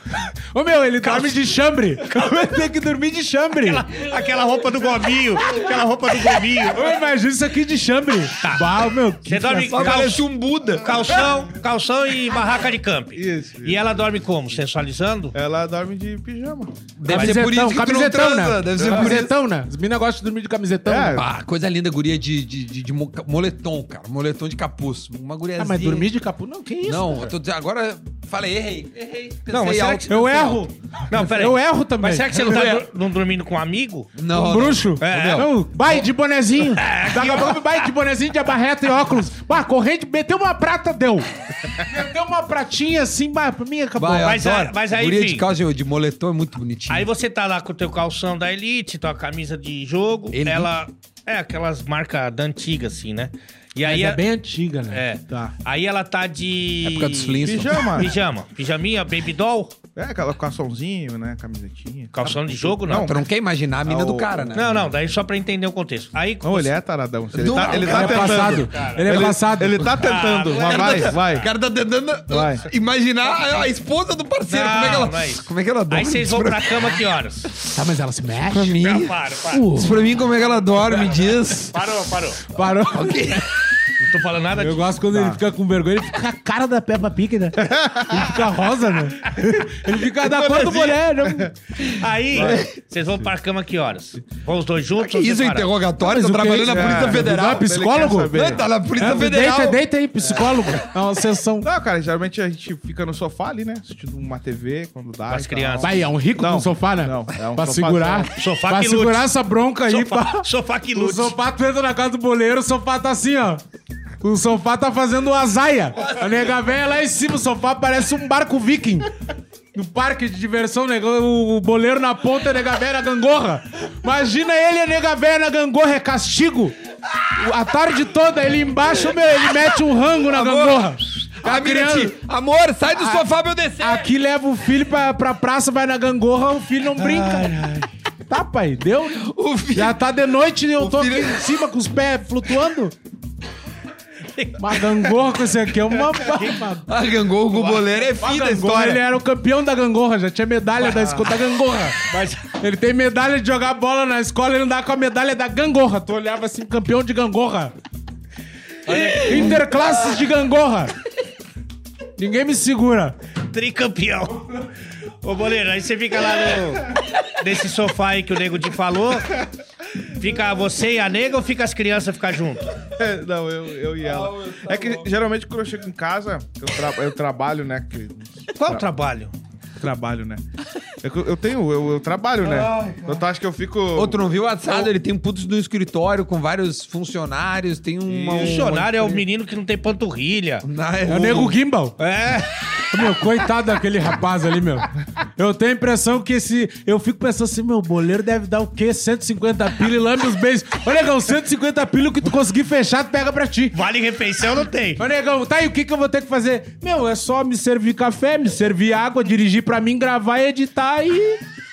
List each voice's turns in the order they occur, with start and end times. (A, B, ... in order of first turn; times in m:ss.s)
0:00.5-0:03.9 A
0:01.0-0:01.4 B
0:03.6-0:06.9 B
0:06.7-0:10.1 A
0:08.4-0:10.2 B
0:09.7-0:11.1 C
0:10.8-0:15.3 B
0:13.1-0:13.9 D
0:15.3-0:16.7 D
0:17.0-0:19.3 C
0:17.1-0:21.2 A
0:17.1-0:17.5 B
0:18.8-0:19.2 D
0:20.8-0:21.3 D
0:21.1-0:26.1 C
0:25.6-0:27.3 A
0:26.8-0:30.6 C
0:29.5-0:34.2 B
0:30.1-0:32.8 A
0:34.1-0:35.5 C
0:34.3-0:44.5 A
0:34.9-0:36.0 B
0:36.7-0:37.8 B
0:44.0-0:47.1 C
0:44.2-0:45.4 B
0:46.9-0:54.2 B
0:50.3-0:50.7 C
0:53.8-0:55.0 A
0:54.9-0:59.7 B
0:56.8-0:58.1 C
0:57.4-0:58.1 D
1:00.0-1:03.3 D
1:02.1-1:03.2 B
1:02.9-1:04.8 C
1:03.8-1:04.6 D
1:04.5-1:06.7 B
1:06.4-1:11.5 D
1:07.3-1:08.6 C
1:07.6-1:09.2 B
1:07.8-1:09.9 A
1:09.8-1:17.0 C
1:10.0-1:11.4 B
1:12.3-1:12.6 D
1:14.5-1:17.5 B
1:17.7-1:18.8 A
1:18.5-1:19.2 C
1:18.8-1:19.7 B
1:19.5-1:20.0 A
1:19.7-1:21.8 C
1:20.8-1:22.4 B
1:22.5-1:23.2 A
1:22.9-1:23.8 C
1:24.0-1:24.9 B
1:24.6-1:31.5 A
1:25.1-1:25.4 D
1:27.6-1:28.4 D
1:31.2-1:31.5 D
1:31.8-1:35.7 B
1:32.3-1:32.7 D
1:32.3-1:32.7 C
1:35.0-1:37.7 C
1:36.0-1:38.4 A
1:36.6-1:38.7 D
1:38.3-1:39.8 C
1:38.9-1:41.7 A
1:40.4-1:40.7 C
1:41.6-1:48.3 D
1:45.3-1:46.0 B
1:45.8-1:53.6 A
1:48.3-1:49.3 B
1:49.9-1:51.3 B
1:54.2-1:59.1 A
1:59.7-2:06.8 A
2:07.3-2:12.2 A
2:10.2-2:14.1 C
2:12.9-2:13.3 A
2:13.8-2:17.5 A
2:17.1-2:17.9 B
2:18.3-2:22.9 A
2:19.2-2:20.0 C
2:20.8-2:21.5 C
2:24.3-2:25.1 B
2:24.6-2:26.9 A
2:26.2-2:26.6 B
2:26.9-2:29.0 C
2:27.5-2:27.9 B
2:28.2-2:37.7 A
2:30.9-2:31.3 B
2:32.0-2:32.4 B
2:38.9-2:39.6 C
2:38.9-2:40.9 A
2:42.2-2:43.2 A
2:43.5-2:44.7 B
2:45.2-2:49.4 B
2:50.0-2:52.8 B
2:52.8-2:58.8 D
2:54.0-2:55.1 C
2:58.6-2:59.3 B
2:59.8-3:00.4 D
3:01.0-3:04.9 D
3:02.4-3:03.2 C
3:03.9-3:09.2 C
3:08.0-3:08.9 D
3:08.3-3:10.6 B
3:10.6-3:11.6 C
3:11.1-3:12.0 A
3:12.0-3:12.5 B
3:12.9-3:23.8 A
3:23.7-3:25.0 B
3:25.0-3:31.4 A